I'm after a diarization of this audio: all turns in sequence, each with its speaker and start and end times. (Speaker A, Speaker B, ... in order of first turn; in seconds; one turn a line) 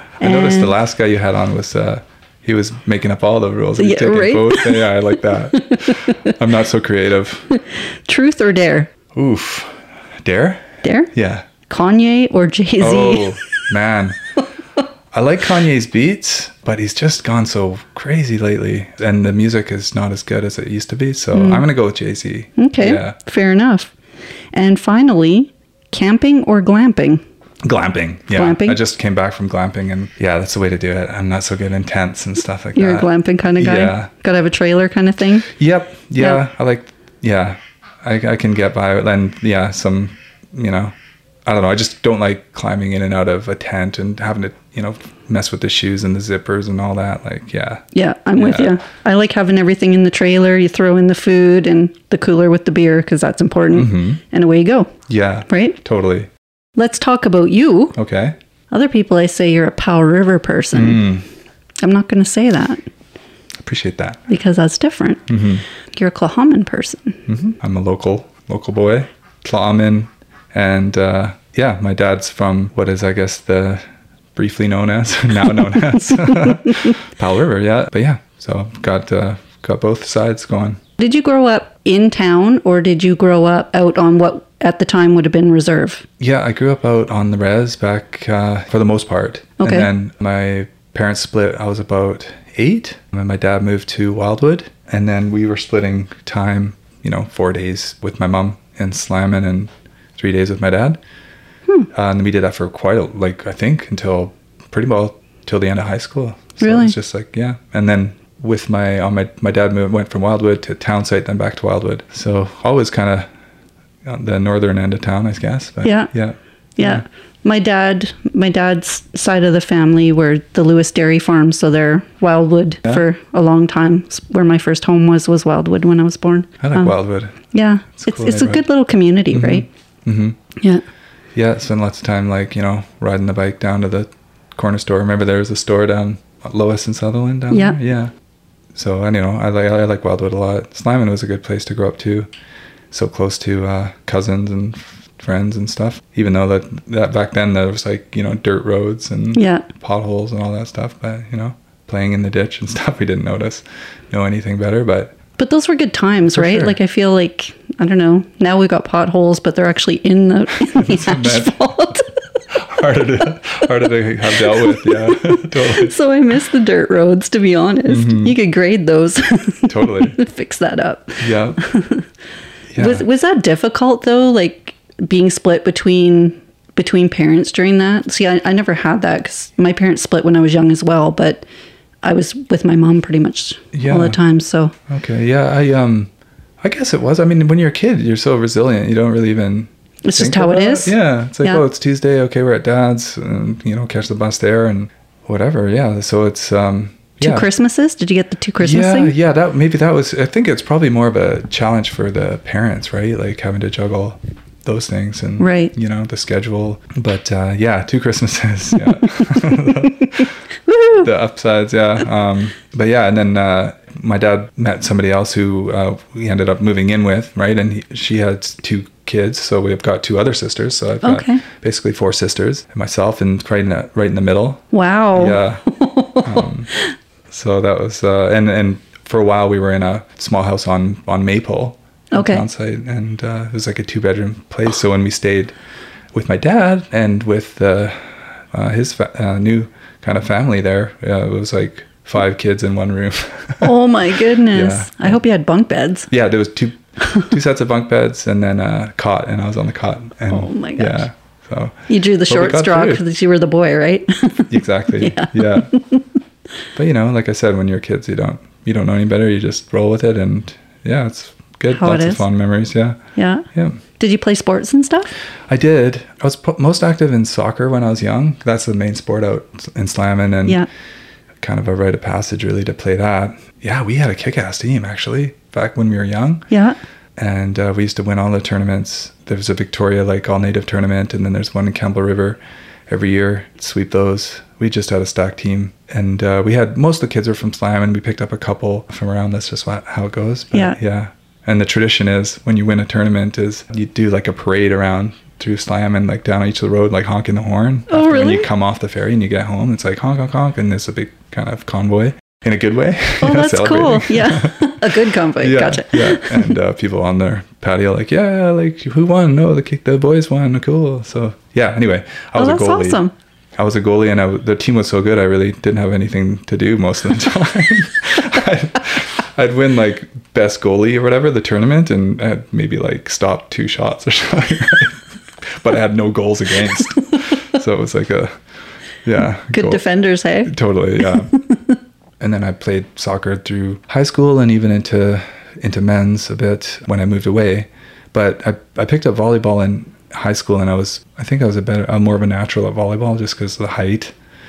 Speaker A: 0.2-7.5
Speaker B: 0.2-0.7
Speaker B: 3.8-6.3
Speaker B: 7.5-8.9
Speaker A: 9.1-11.5
Speaker B: 10.8-11.1
Speaker B: 11.7-13.5
Speaker A: 12.8-14.2
Speaker A: 15.1-23.1
Speaker B: 21.3-21.6
Speaker B: 22.6-23.9
Speaker B: 24.5-27.2
Speaker A: 27.6-34.1
Speaker B: 28.3-28.8
Speaker B: 32.7-35.5
Speaker A: 35.5-40.9
Speaker A: 41.4-47.8
Speaker B: 47.9-54.9
Speaker A: 48.4-48.8
Speaker A: 53.7-54.2
Speaker A: 55.1-56.3
Speaker B: 55.5-55.8
Speaker B: 56.8-58.0
Speaker A: 57.9-58.4
Speaker B: 58.7-61.0
Speaker A: 60.7-61.2
Speaker B: 61.8-62.8
Speaker A: 63.6-64.2
Speaker B: 64.3-65.3
Speaker A: 65.3-65.6
Speaker B: 65.9-67.2
Speaker A: 67.3-73.8
Speaker A: 74.3-80.8
Speaker B: 75.5-77.0
Speaker B: 81.0-86.0
Speaker A: 86.2-101.0
Speaker B: 89.6-89.9
Speaker A: 101.9-113.3
Speaker B: 106.6-106.9
Speaker A: 114.0-117.0
Speaker B: 115.8-116.1
Speaker B: 116.8-127.0
Speaker A: 126.6-127.3
Speaker B: 127.5-129.7
Speaker A: 128.0-128.6
Speaker A: 129.3-130.4
Speaker A: 131.3-138.1
Speaker B: 137.5-137.8
Speaker A: 138.7-142.3
Speaker A: 142.9-155.2
Speaker B: 149.3-149.7
Speaker B: 155.4-162.1
Speaker A: 156.3-156.7
Speaker A: 160.6-165.9
Speaker B: 164.3-172.1
Speaker A: 167.9-168.3
Speaker A: 169.7-170.2
Speaker A: 171.2-171.6
Speaker A: 172.7-173.1
Speaker B: 172.8-181.4
Speaker B: 182.0-184.7
Speaker A: 183.7-184.2
Speaker A: 184.9-186.1
Speaker A: 186.6-197.5
Speaker B: 190.0-191.6
Speaker B: 197.2-199.1
Speaker A: 198.6-210.3
Speaker B: 205.4-205.7
Speaker B: 210.7-211.1
Speaker A: 210.9-224.6
Speaker B: 221.0-221.4
Speaker B: 224.7-226.9
Speaker A: 225.1-225.6
Speaker A: 226.2-226.7
Speaker A: 227.3-235.5
Speaker B: 232.1-232.4
Speaker A: 236.1-243.8
Speaker B: 243.6-246.1
Speaker A: 244.3-245.2
Speaker A: 246.1-253.0
Speaker B: 250.3-251.1
Speaker B: 251.9-256.0
Speaker A: 254.5-255.7
Speaker A: 256.7-263.0
Speaker B: 261.7-262.2
Speaker B: 263.1-263.4
Speaker A: 263.5-263.8
Speaker B: 264.0-265.1
Speaker A: 265.5-270.6
Speaker A: 271.4-276.5
Speaker B: 276.5-276.8
Speaker A: 277.2-313.0
Speaker B: 290.5-290.8
Speaker B: 297.9-298.5
Speaker B: 303.2-306.5
Speaker B: 312.4-313.1
Speaker A: 313.6-328.3
Speaker A: 329.0-329.8
Speaker B: 329.5-331.8
Speaker A: 330.4-331.4
Speaker A: 332.2-344.1